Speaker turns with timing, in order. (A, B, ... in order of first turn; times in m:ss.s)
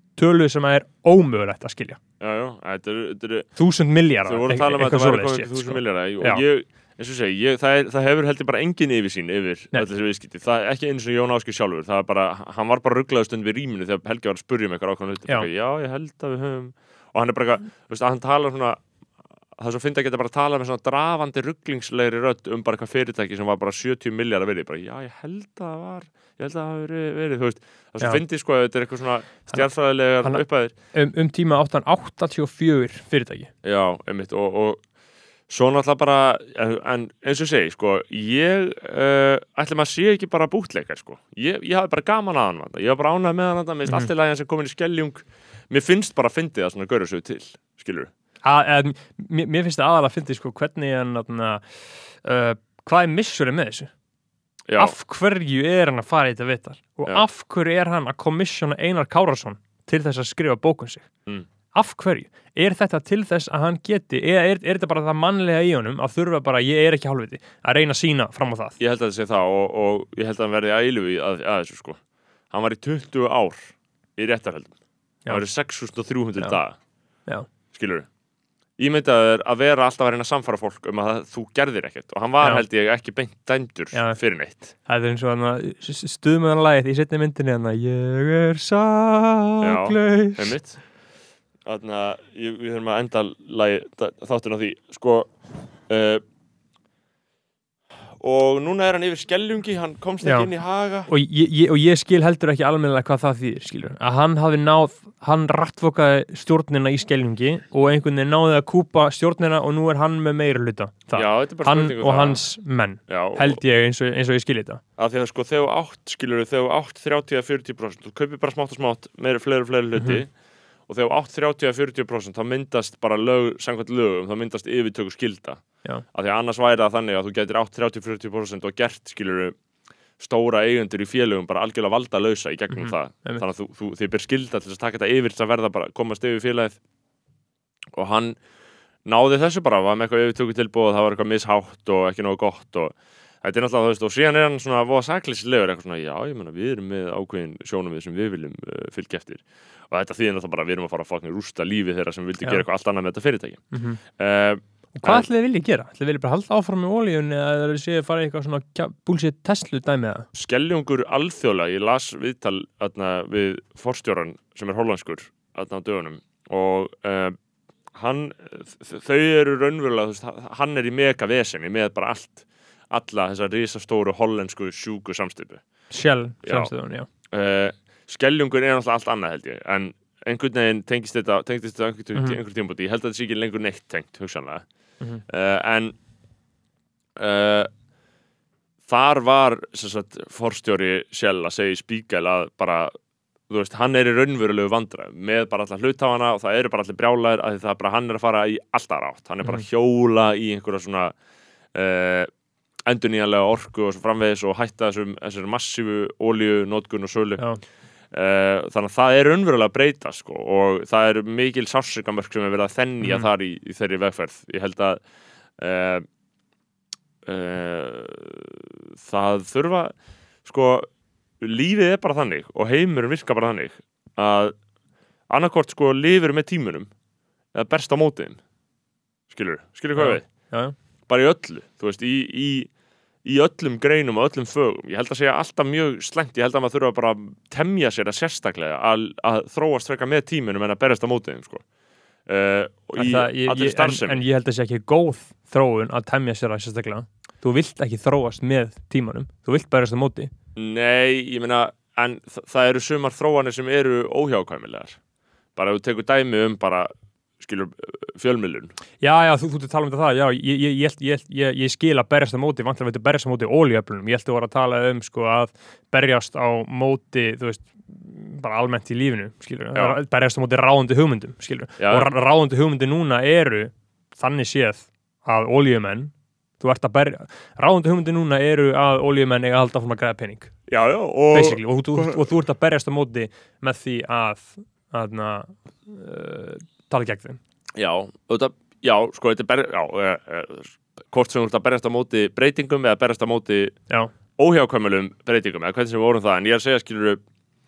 0:00.2-0:02.0 A
0:02.2-0:03.5 B
0:03.6-0:06.4 A
0:04.2-0:18.8 B
0:19.6-0:30.7 B
0:30.2-0:33.5 A
0:33.6-0:34.8 B
0:35.5-0:48.1 B
0:48.4-0:53.9 A
0:54.7-0:54.9 B
0:54.8-1:01.1 A
1:01.7-1:08.8 A
1:08.8-1:14.7 B
1:15.3-1:16.8 B
1:17.7-1:18.1 B
1:18.8-1:24.7 B
1:23.9-1:24.2 A
1:24.8-1:30.5 A
1:29.6-1:30.8 B
1:31.6-1:35.3 B
1:35.9-1:36.2 B
1:38.2-1:41.1 B
1:40.2-1:40.5 A
1:41.1-1:54.8 A
1:51.1-1:52.4 B
1:53.1-1:53.6 B
1:55.0-2:00.3 B
2:00.9-2:09.6 B
2:10.2-2:16.8 B
2:12.7-2:13.4 A
2:17.9-2:18.4 B
2:19.0-2:35.3 B
2:33.7-2:34.0 A
2:35.0-2:40.3 A
2:40.3-2:47.3 B
2:47.9-2:55.6 B
2:55.9-2:57.1 A
2:56.4-2:56.7 B
2:57.3-3:04.6 B
3:05.3-3:05.9 B
3:07.2-3:07.7 B
3:08.9-3:12.9 B
3:13.5-3:21.1 B
3:21.7-3:22.3 B
3:22.8-3:27.4 B
3:28.1-3:35.0 B
3:33.0-3:33.3 A
3:35.6-3:36.0 B
3:37.2-3:44.5 B
3:45.3-3:46.9 B
3:47.5-3:48.4 B
3:49.3-3:50.2 B
3:49.9-3:50.7 A
3:51.1-3:52.7 B
3:53.2-4:01.6 B
4:02.3-4:04.2 B
4:03.0-4:10.3 A
4:10.5-4:15.0 B
4:15.6-4:18.7 B
4:19.0-4:40.5 A
4:31.8-4:32.1 B
4:40.7-4:42.3 B
4:41.3-4:47.4 A
4:47.7-4:53.8 B
4:54.4-4:57.2 B